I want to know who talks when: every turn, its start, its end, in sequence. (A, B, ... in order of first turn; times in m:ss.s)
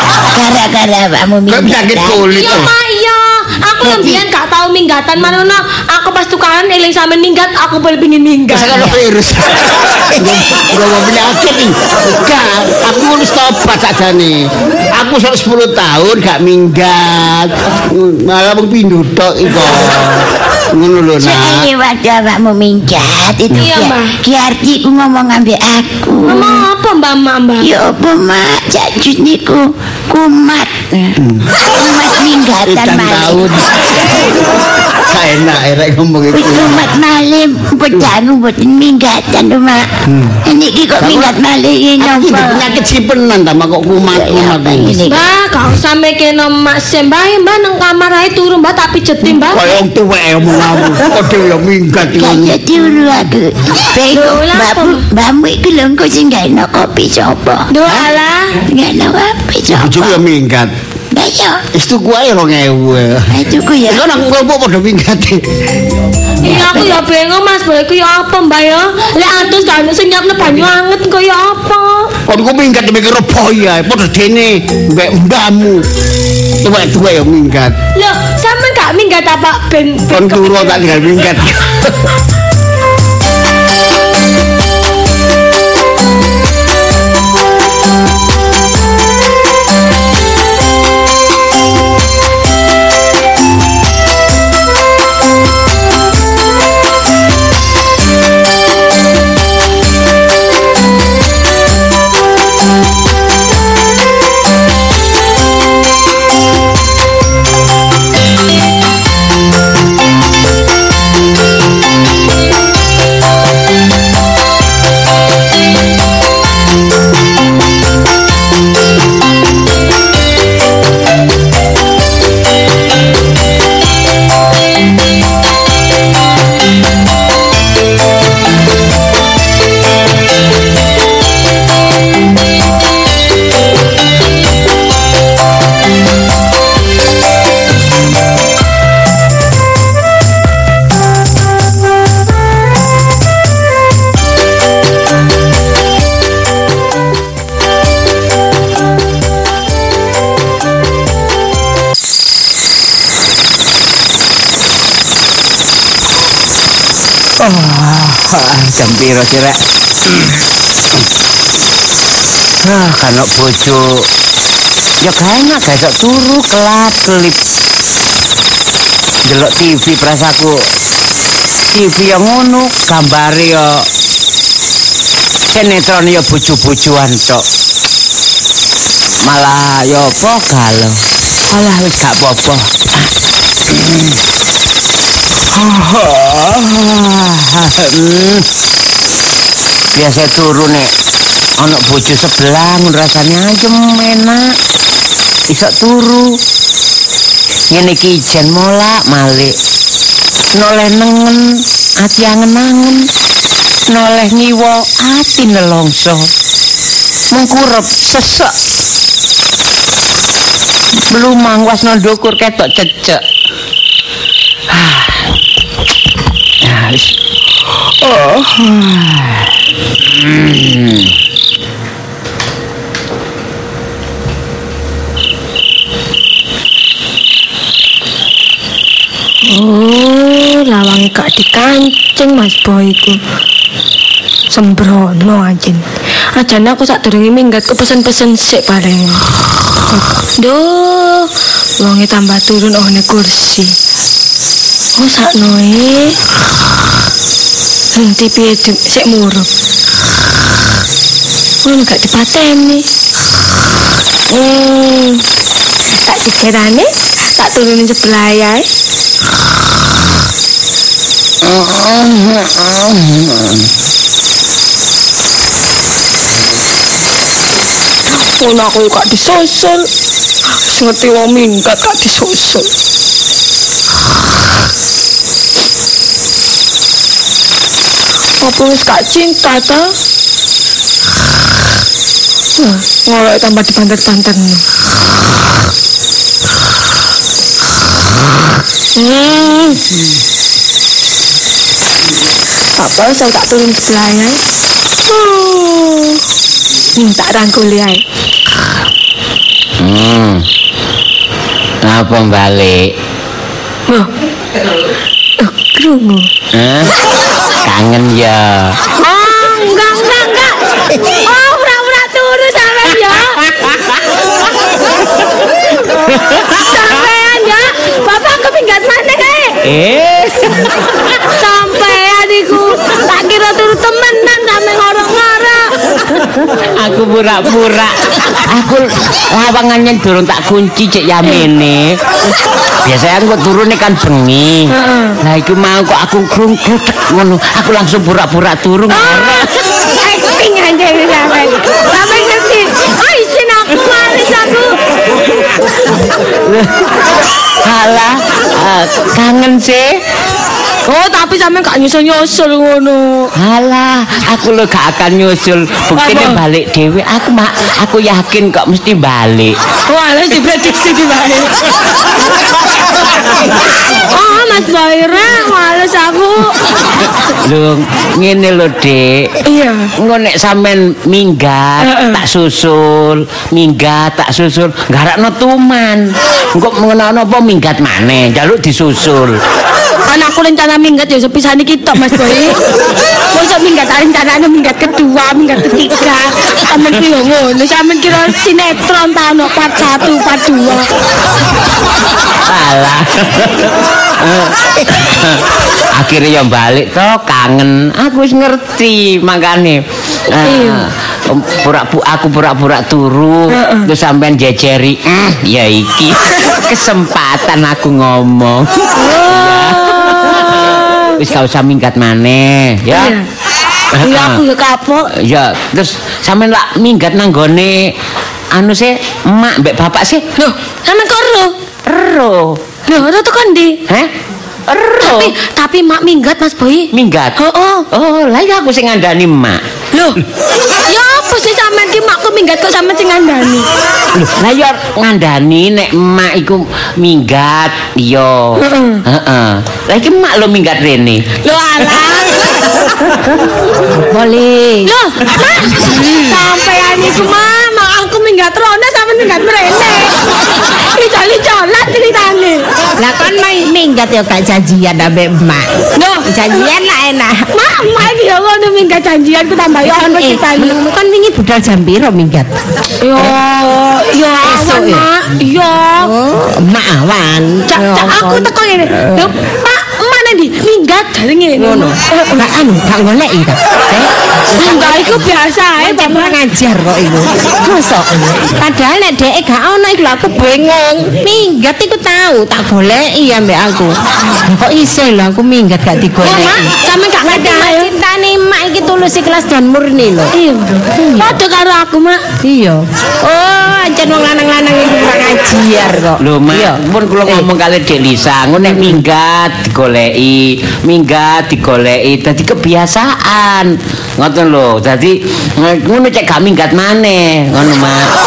0:00.3-0:02.4 A
0:01.5-0:02.7 B
0:02.2-0:08.9 C
0:03.8-0:04.2 A
0:08.5-0:21.6 B
0:21.2-0:26.6 A
0:23.5-0:24.1 C
0:26.2-0:27.7 C
0:27.6-0:33.4 A
0:31.2-0:31.5 B
0:32.6-0:34.4 B
0:35.0-0:36.8 B
0:36.3-0:39.9 A
0:40.1-0:40.4 B
0:40.4-0:42.6 A
0:41.0-0:41.4 B
0:42.0-0:45.0 B
0:44.1-0:45.2 A
0:45.0-0:49.6 C
0:49.2-0:52.6 B
0:52.2-0:57.7 A
0:54.1-0:55.1 C
0:57.7-0:58.6 C
0:58.6-1:00.2 A
0:59.7-1:00.7 B
1:01.1-1:01.6 A
1:01.7-1:05.5 B
1:03.3-1:04.0 A
1:06.4-1:12.1 C
1:06.4-1:06.7 A
1:12.2-1:15.8 B
1:16.6-1:17.7 B
1:17.9-1:20.8 C
1:20.1-1:22.1 B
2:37.4-2:40.4 D
2:42.6-2:44.1 D
2:45.0-2:47.4 D
2:49.2-2:50.6 D
2:51.7-2:53.9 D
2:55.5-2:57.4 D
2:59.2-3:03.1 D
3:03.7-3:04.2 D
3:05.5-3:08.4 D
3:09.9-3:10.9 D
3:11.6-3:14.6 D
3:15.5-3:16.4 D
3:17.7-3:19.6 D
3:20.5-3:23.1 D
3:23.9-3:26.3 D
3:27.3-3:28.5 D
3:31.1-3:33.2 D
3:34.7-3:35.2 D
3:36.6-3:37.1 D
3:38.0-3:39.5 D
3:40.0-3:41.1 D
3:49.4-3:53.2 C
3:54.5-3:59.2 C
3:59.9-4:03.7 C
4:05.0-4:06.2 C
4:07.9-4:09.5 C
4:11.6-4:12.8 C
4:14.3-4:15.2 C
4:16.0-4:18.7 C
4:21.4-4:23.7 D
4:28.2-4:29.9 C
4:30.6-4:32.7 C
4:38.4-4:39.9 C
4:42.6-4:44.6 C
4:49.0-4:49.8 C
4:52.8-4:54.4 C
4:55.1-4:56.2 C
4:57.0-4:58.0 C
4:59.8-5:00.4 D
5:01.8-5:02.9 D
5:05.4-5:06.3 C
5:06.5-5:06.9 D
5:07.6-5:08.8 D
5:09.0-5:13.4 C
5:13.7-5:13.9 D
5:16.1-5:16.6 D
5:16.5-5:19.6 C
5:19.6-5:20.7 D
5:21.3-5:25.7 C
5:26.7-5:27.9 D
5:28.5-5:32.0 D
5:32.8-5:39.5 D
5:34.7-5:35.2 C
5:38.9-5:44.8 C
5:46.4-5:46.9 D
5:47.6-5:50.0 D
5:50.9-5:53.3 C
5:53.4-5:59.6 D
5:55.9-5:56.4 C
5:59.9-6:01.5 C
6:03.9-6:06.5 C
6:07.4-6:09.4 D
6:09.4-6:09.9 C
6:10.0-6:19.4 D
6:11.8-6:12.2 C
6:20.1-6:22.6 C
6:23.3-6:30.9 C
6:32.5-6:53.2 D
6:40.4-6:40.8 C
6:43.5-6:43.9 C
6:49.0-6:51.2 C
6:52.9-6:53.2 C
6:53.9-6:54.4 D
6:54.0-6:55.1 C
6:55.1-6:57.9 D
6:58.5-7:00.2 D
7:00.4-7:01.5 C
7:01.8-7:02.6 D
7:02.9-7:03.8 C
7:04.7-7:05.3 D
7:05.0-7:07.8 C
7:06.9-7:07.4 D
7:07.9-7:09.6 D
7:09.9-7:10.2 C
7:10.9-7:13.6 C
7:14.1-7:21.2 D
7:18.6-7:19.0 C
7:21.4-7:22.4 C
7:23.9-7:24.9 E
7:24.8-7:30.1 C
7:25.8-7:26.4 E
7:30.8-7:32.6 C
7:33.0-7:37.5 E
7:35.9-7:36.7 C
7:37.5-7:40.8 C
7:39.8-7:42.5 E
7:43.0-7:46.1 C
7:44.4-7:45.1 E
7:46.0-7:49.3 E
7:47.7-7:52.5 C
7:51.6-7:55.2 E
7:54.5-7:56.4 C
7:55.8-8:06.7 E
8:06.2-8:07.9 C
8:07.2-8:10.3 E
8:10.3-8:12.2 C
8:11.0-8:11.4 E
8:12.4-8:17.5 E
8:16.2-8:28.1 D